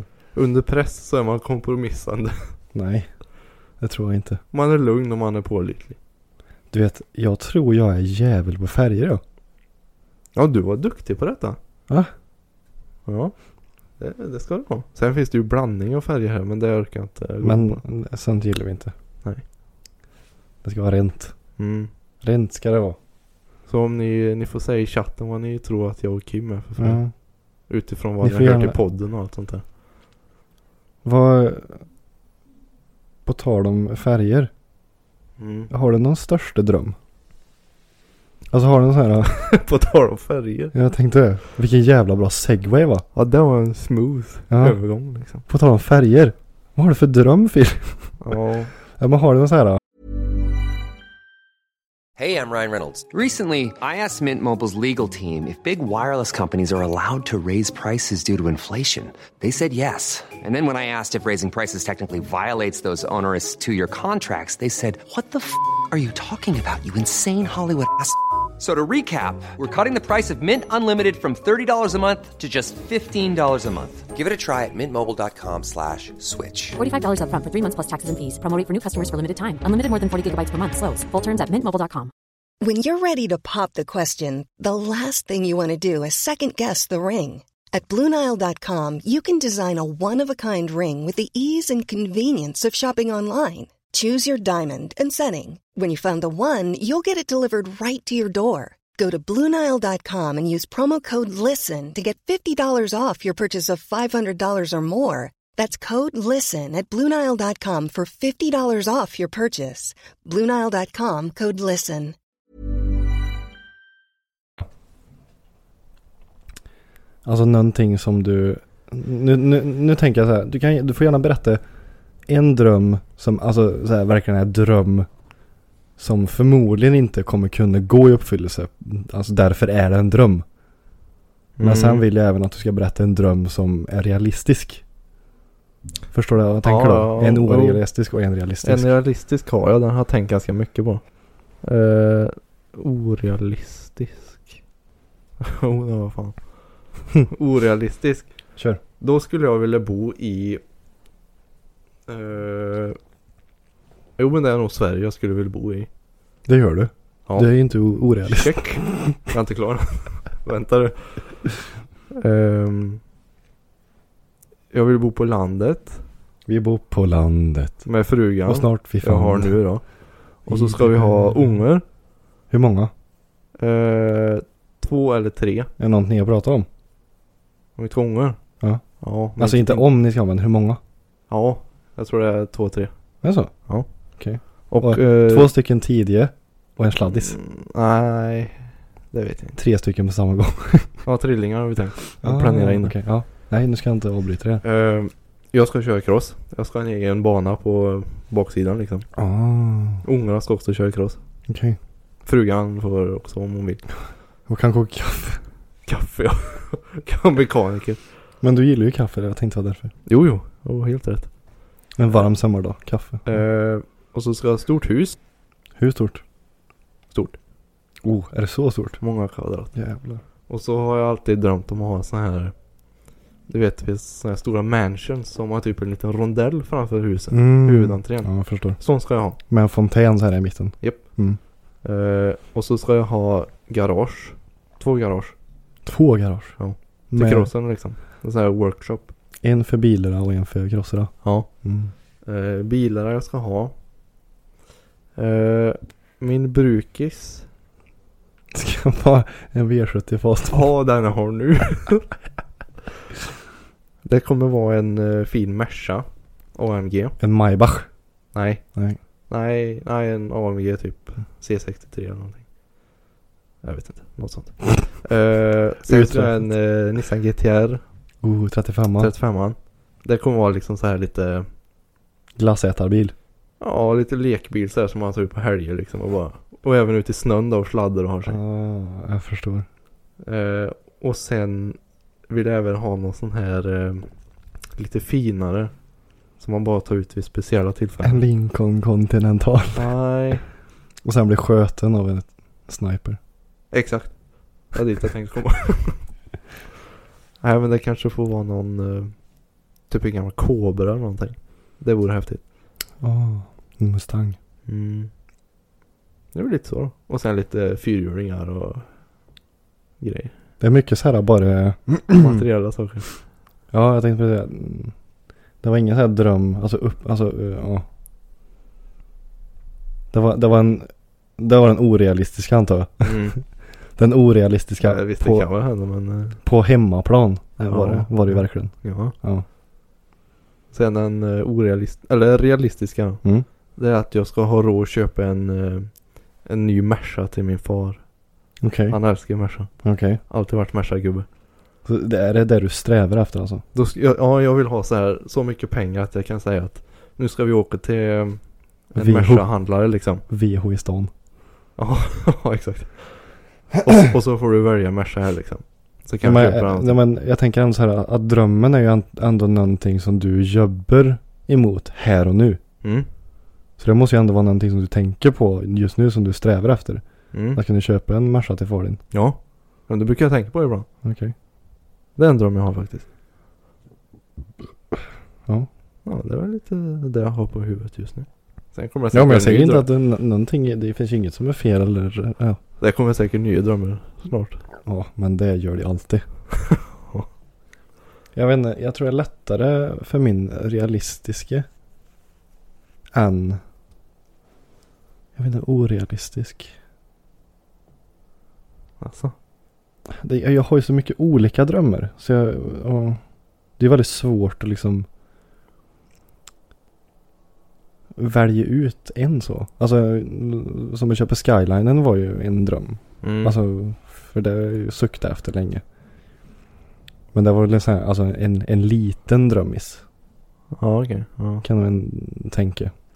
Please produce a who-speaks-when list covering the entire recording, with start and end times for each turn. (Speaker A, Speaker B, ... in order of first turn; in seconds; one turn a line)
Speaker A: 0.3-2.4
Speaker B: 2.7-3.1
Speaker B: 3.8-4.4
Speaker A: 4.5-6.0
Speaker B: 6.7-9.2
Speaker A: 10.3-11.6
Speaker A: 13.1-13.3
Speaker A: 14.0-17.8
Speaker B: 17.4-18.9
Speaker B: 20.6-21.3
Speaker A: 21.6-21.9
Speaker B: 22.2-23.0
Speaker A: 23.7-27.0
Speaker B: 26.8-27.1
Speaker A: 27.7-29.6
Speaker B: 28.2-28.8
Speaker B: 31.0-31.8
Speaker B: 33.2-34.5
Speaker A: 35.4-35.7
Speaker B: 35.7-37.0
Speaker B: 38.5-39.4
Speaker A: 39.2-40.7
Speaker B: 40.7-43.0
Speaker A: 43.1-45.5
Speaker B: 44.5-44.8
Speaker B: 45.5-48.1
Speaker A: 48.2-48.7
Speaker B: 49.0-49.8
Speaker C: 52.2-76.8
Speaker D: 76.8-82.1
Speaker E: 82.6-112.1
Speaker B: 117.2-121.6
Speaker B: 122.3-125.1
Speaker B: 126.0-130.4
Speaker A: 131.6-132.1
Speaker B: 131.6-134.8
Speaker B: 136.1-138.9
Speaker A: 136.6-137.8
Speaker A: 138.6-141.0
Speaker A: 141.6-144.6
Speaker A: 145.4-146.4
Speaker A: 147.2-148.3
Speaker A: 149.0-150.6
Speaker A: 152.1-153.0
Speaker A: 154.2-155.9
Speaker B: 156.5-159.2
Speaker A: 158.2-161.3
Speaker A: 162.1-163.0
Speaker A: 164.7-166.0
Speaker B: 166.5-167.9
Speaker A: 167.8-169.8
Speaker B: 168.4-169.6
Speaker A: 170.4-171.8
Speaker B: 170.4-171.5
Speaker B: 172.5-172.9
Speaker A: 173.6-175.7
Speaker B: 175.8-176.7
Speaker A: 177.8-178.4
Speaker A: 179.0-179.9
Speaker B: 179.3-180.8
Speaker A: 181.3-182.9
Speaker B: 183.2-183.5
Speaker B: 184.2-187.4
Speaker A: 184.5-185.5
Speaker A: 187.0-189.6
Speaker B: 189.6-190.9
Speaker A: 191.0-193.0
Speaker B: 192.2-194.6
Speaker A: 194.6-199.1
Speaker B: 199.2-200.0
Speaker A: 200.0-201.2
Speaker B: 201.5-201.8
Speaker A: 202.2-203.8
Speaker B: 204.5-205.4
Speaker A: 205.8-208.0
Speaker B: 208.4-209.9
Speaker A: 210.1-211.3
Speaker B: 211.9-213.2
Speaker A: 213.2-215.2
Speaker B: 215.8-216.2
Speaker A: 217.1-217.4
Speaker B: 218.0-219.0
Speaker A: 219.0-219.7
Speaker B: 219.7-220.2
Speaker A: 220.5-222.5
Speaker A: 223.5-229.4
Speaker B: 227.3-228.8
Speaker B: 229.5-231.4
Speaker A: 231.8-235.3
Speaker B: 235.8-236.6
Speaker A: 236.6-239.1
Speaker B: 237.1-237.5
Speaker B: 239.4-241.9
Speaker A: 241.2-241.5
Speaker A: 242.2-243.7
Speaker A: 245.2-247.4
Speaker B: 248.5-250.7
Speaker A: 250.5-252.1
Speaker A: 254.0-257.1
Speaker B: 257.2-257.9
Speaker A: 258.3-258.6
Speaker A: 259.3-262.4
Speaker A: 263.6-267.8
Speaker B: 265.9-266.5
Speaker B: 268.2-269.1
Speaker A: 269.0-271.5
Speaker B: 272.4-273.1
Speaker A: 273.6-278.4
Speaker B: 278.2-279.7
Speaker A: 280.2-281.8
Speaker A: 282.3-284.1
Speaker A: 284.8-285.7
Speaker A: 286.4-288.2
Speaker B: 288.0-289.9
Speaker A: 289.7-290.4
Speaker B: 291.0-293.2
Speaker A: 293.7-296.0
Speaker A: 297.4-299.1
Speaker A: 299.9-302.4
Speaker B: 303.0-304.4
Speaker A: 304.7-305.1
Speaker A: 306.3-308.9
Speaker A: 310.0-310.3
Speaker B: 310.6-312.4
Speaker A: 312.1-313.1
Speaker B: 313.7-314.9
Speaker B: 315.6-317.9
Speaker B: 320.1-323.4
Speaker A: 323.0-323.4
Speaker B: 324.0-325.5
Speaker A: 324.8-326.4
Speaker B: 326.4-329.4
Speaker A: 327.6-329.1
Speaker A: 330.7-333.2
Speaker A: 333.8-338.0
Speaker B: 338.6-339.0
Speaker A: 338.9-339.7
Speaker B: 339.8-340.2
Speaker A: 340.3-341.2
Speaker B: 341.8-343.6
Speaker A: 343.7-350.2
Speaker B: 348.9-349.5
Speaker B: 350.3-351.1
Speaker A: 351.8-353.2
Speaker A: 353.8-357.0
Speaker B: 356.2-362.6
Speaker A: 362.8-363.1
Speaker B: 363.8-367.0
Speaker A: 367.3-367.6
Speaker B: 367.5-369.0
Speaker A: 369.1-370.9
Speaker B: 371.0-371.3
Speaker A: 372.2-373.1
Speaker A: 376.0-379.9
Speaker B: 379.1-382.6
Speaker A: 382.8-384.6
Speaker B: 384.8-386.2
Speaker A: 386.7-387.3
Speaker B: 388.3-391.7
Speaker B: 393.1-393.6
Speaker B: 395.3-396.7
Speaker A: 399.0-399.3
Speaker B: 400.1-403.2
Speaker B: 403.8-405.1
Speaker B: 408.1-415.8
Speaker A: 413.2-413.6
Speaker B: 417.3-420.0
Speaker A: 420.7-421.6
Speaker B: 421.6-422.9